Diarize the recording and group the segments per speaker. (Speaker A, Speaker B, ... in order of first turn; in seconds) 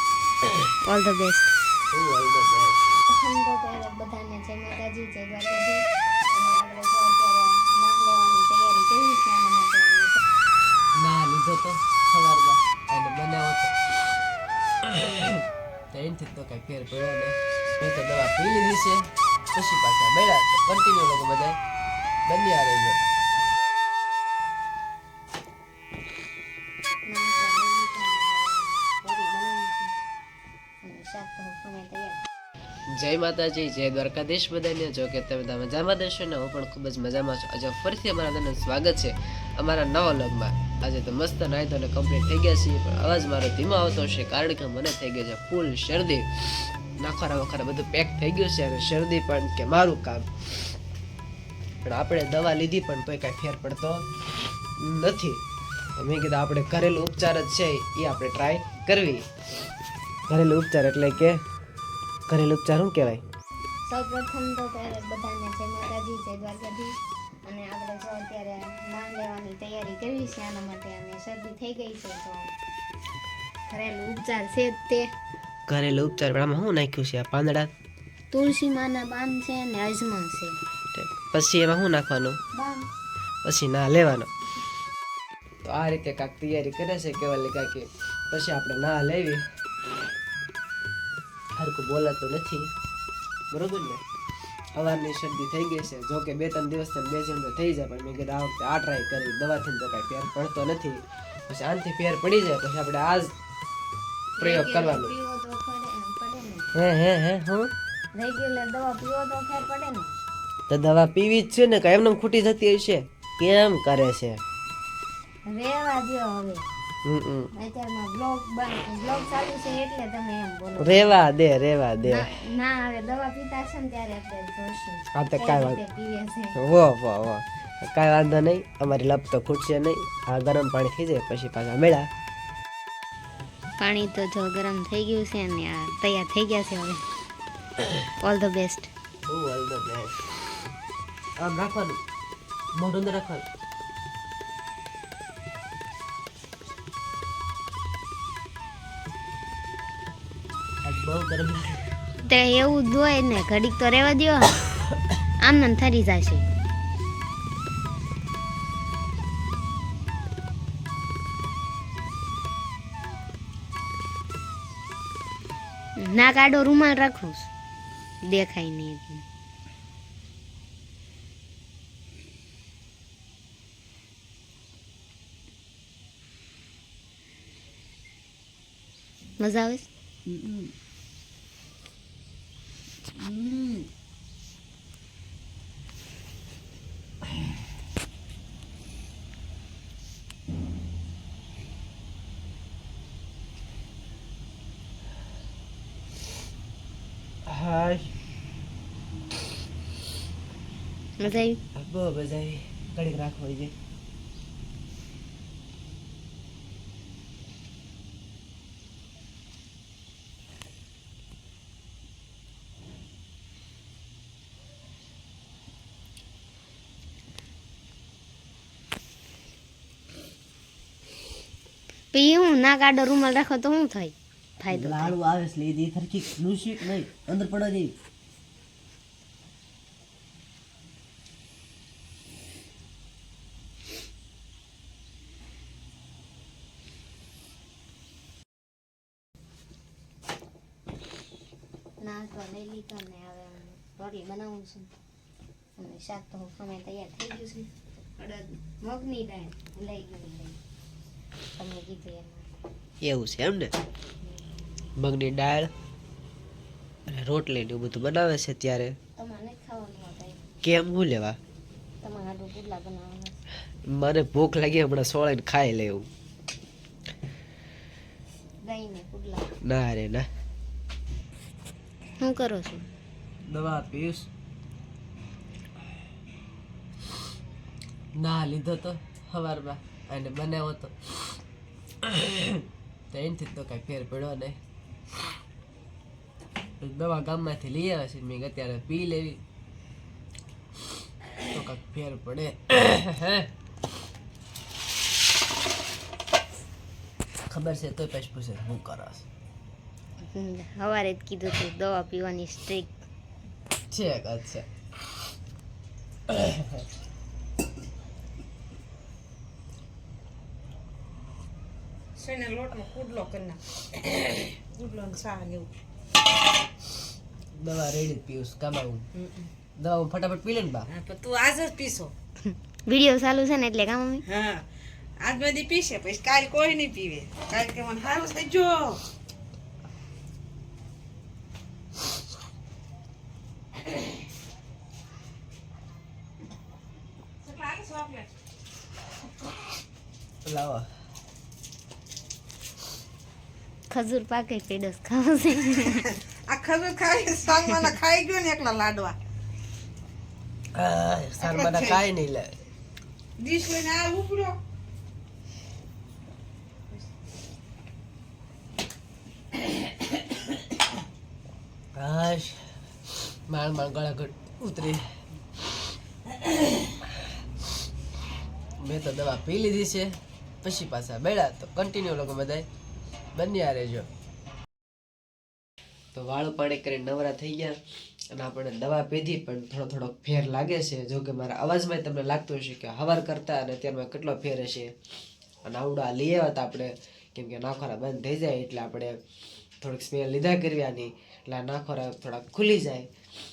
Speaker A: 0.9-1.5, 3.1-10.2, 27.1-30.0, 30.8-32.2, 63.9-72.5, 73.7-75.1, 78.3-80.6, 82.5-82.9, 104.4-106.7, 108.1-110.2, 115.5-116.7, 117.5-121.2, 122.0-126.6, 133.8-137.0, 138.2-138.9, 152.2-154.6, 155.4-156.5, 166.0-167.5, 168.2-169.2, 179.4-179.9, 201.2-201.6, 222.1-225.1, 242.0-244.9, 245.8-250.6, 251.6-252.5, 259.2-260.4, 262.0-263.4, 268.6-269.5, 272.2-272.9, 300.2-302.9, 322.5-324.2, 343.9-346.2
Speaker B: 1.9-2.8, 11.0-13.8, 14.8-21.6, 22.3-23.0, 32.9-50.6, 51.8-54.0, 54.8-55.4, 56.0-59.3, 60.3-61.4, 62.3-63.2, 75.7-77.7, 80.9-82.4, 83.4-84.3, 85.6-89.4, 91.6-92.7, 93.5-94.0, 94.8-103.3, 104.4-105.1, 106.7-107.7, 110.7-114.4, 117.0-117.5, 120.8-122.3, 125.2-125.8, 126.6-132.1, 139.3-140.2, 141.4-142.0, 142.8-143.5, 150.8-151.8, 180.3-180.7, 183.2-183.9, 197.5-198.1, 201.8-203.7, 224.7-227.9, 253.0-253.7, 255.0-255.7, 257.1-259.0, 260.6-261.4, 263.9-266.1, 269.6-270.3, 273.5-274.3, 278.2-281.4, 282.0-284.6, 286.8-289.4, 291.5-293.5, 297.5-299.3, 303.9-304.6, 306.3-306.9, 317.6-319.1, 319.8-320.9, 340.4-340.9, 350.8-352.5, 362.0-365.0, 368.8-372.6, 373.4-374.1, 376.1-377.8, 378.3-384.9, 385.6-389.2, 389.8-393.1
Speaker C: 312.2-315.7, 320.9-322.1, 324.3-324.6, 325.2-329.0, 337.4-338.3, 346.2-349.2, 351.4-352.1, 353.4-354.6